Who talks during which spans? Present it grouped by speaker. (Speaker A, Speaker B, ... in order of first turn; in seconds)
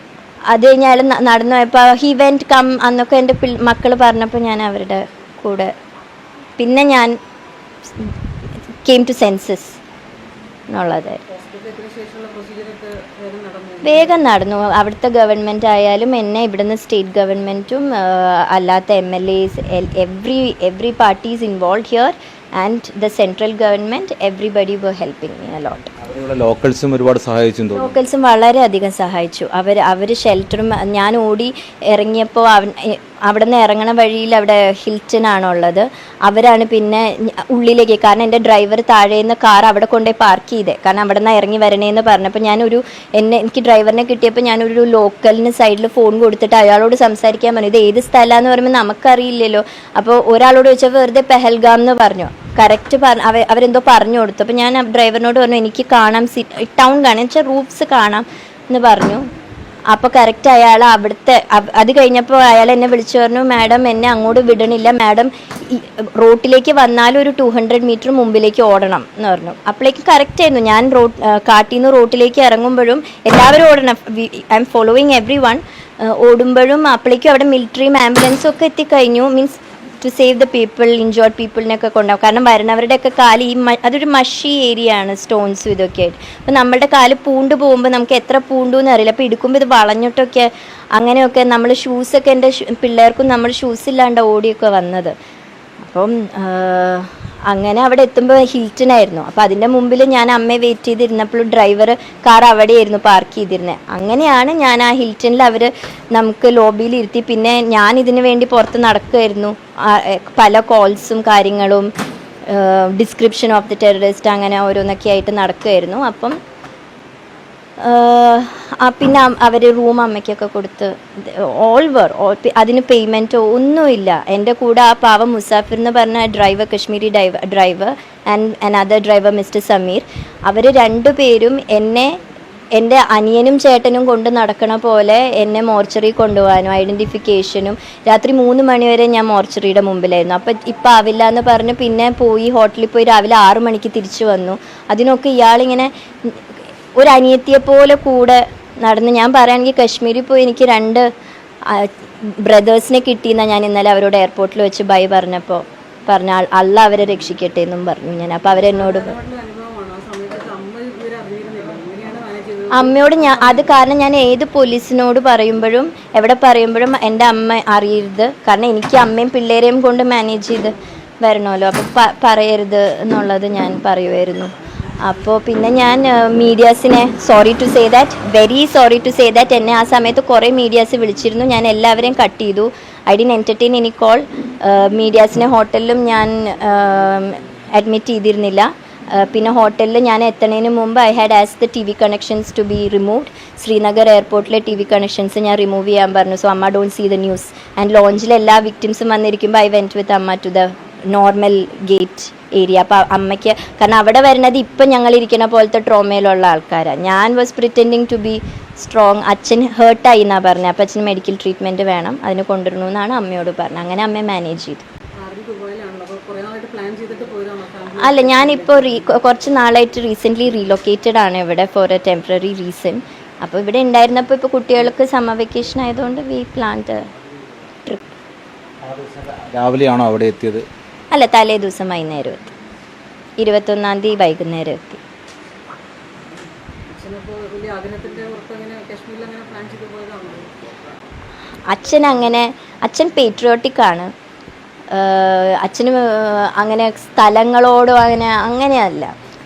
Speaker A: 0.5-5.7, 6.6-7.1, 8.8-9.8, 10.7-11.2, 13.8-25.8, 27.8-59.2, 59.9-95.1, 95.8-111.9, 112.5-116.4, 117.8-132.1, 132.8-146.4, 146.9-151.1, 151.7-159.1, 162.7-214.9, 218.0-227.0, 227.8-228.1, 231.1-232.5, 233.4-235.0, 241.7-244.1, 244.9-249.1
Speaker B: 11.3-14.1, 158.7-163.7, 215.2-219.2, 236.9-240.5
Speaker C: 26.0-28.0, 228.8-230.6